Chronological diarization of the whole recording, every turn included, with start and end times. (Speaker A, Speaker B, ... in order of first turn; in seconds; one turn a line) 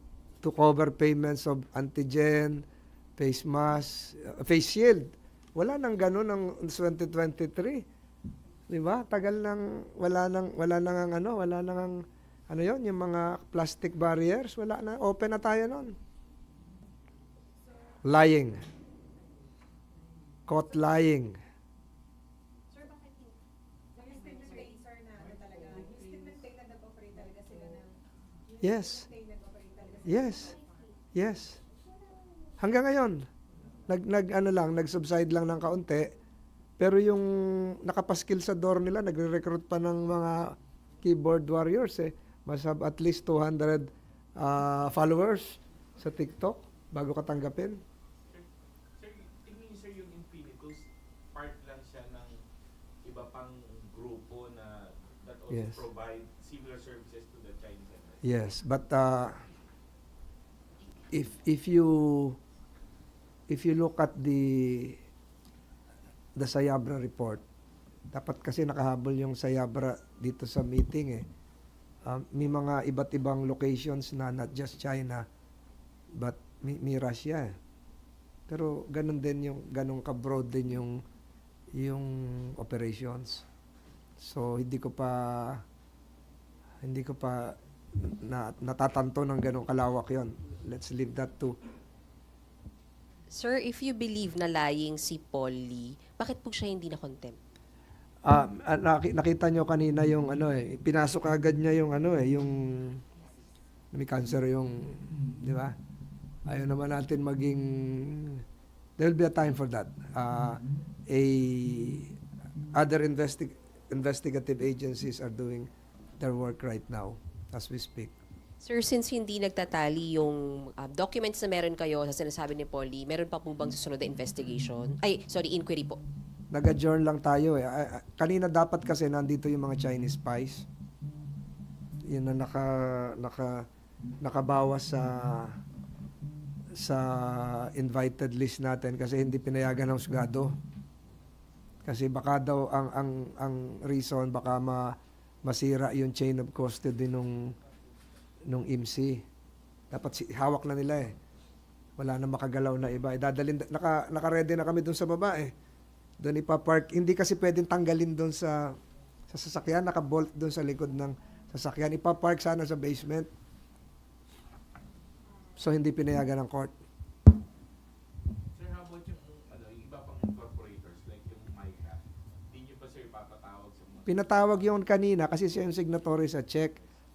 Speaker A: 0.4-2.6
Speaker A: 3.2-7.8
Speaker A: 8.7-15.9
Speaker A: 18.0-18.6
Speaker A: 20.5-21.4
Speaker B: 22.8-23.2
Speaker B: 23.9-28.0
Speaker B: 28.5-30.7
Speaker A: 28.6-29.1
Speaker A: 30.0-30.6
Speaker A: 31.1-31.6
Speaker A: 32.6-33.2
Speaker A: 33.9-36.1
Speaker A: 36.8-47.8
Speaker C: 48.2-52.4
Speaker C: 53.0-58.2
Speaker A: 55.5-55.8
Speaker A: 58.2-59.4
Speaker A: 61.1-62.4
Speaker A: 63.5-65.0
Speaker A: 66.4-67.4
Speaker A: 68.1-71.2
Speaker A: 72.0-75.2
Speaker A: 76.1-77.5
Speaker A: 78.5-81.0
Speaker A: 81.7-83.5
Speaker A: 84.2-85.6
Speaker A: 86.8-91.5
Speaker D: 93.3-97.4
Speaker A: 98.2-103.0
Speaker A: 103.9-105.7
Speaker A: 106.5-108.4
Speaker A: 109.0-112.1
Speaker A: 112.7-115.7
Speaker A: 116.2-118.1
Speaker D: 118.6-126.0
Speaker A: 126.5-130.7
Speaker A: 132.1-133.6
Speaker A: 134.2-135.6
Speaker A: 136.8-140.5
Speaker A: 141.8-144.9
Speaker A: 145.4-147.4
Speaker A: 148.5-149.2
Speaker A: 149.9-151.2
Speaker A: 152.0-155.5
Speaker A: 156.2-158.7
Speaker A: 159.3-163.3
Speaker A: 165.6-166.7
Speaker C: 168.5-174.8
Speaker A: 174.1-176.8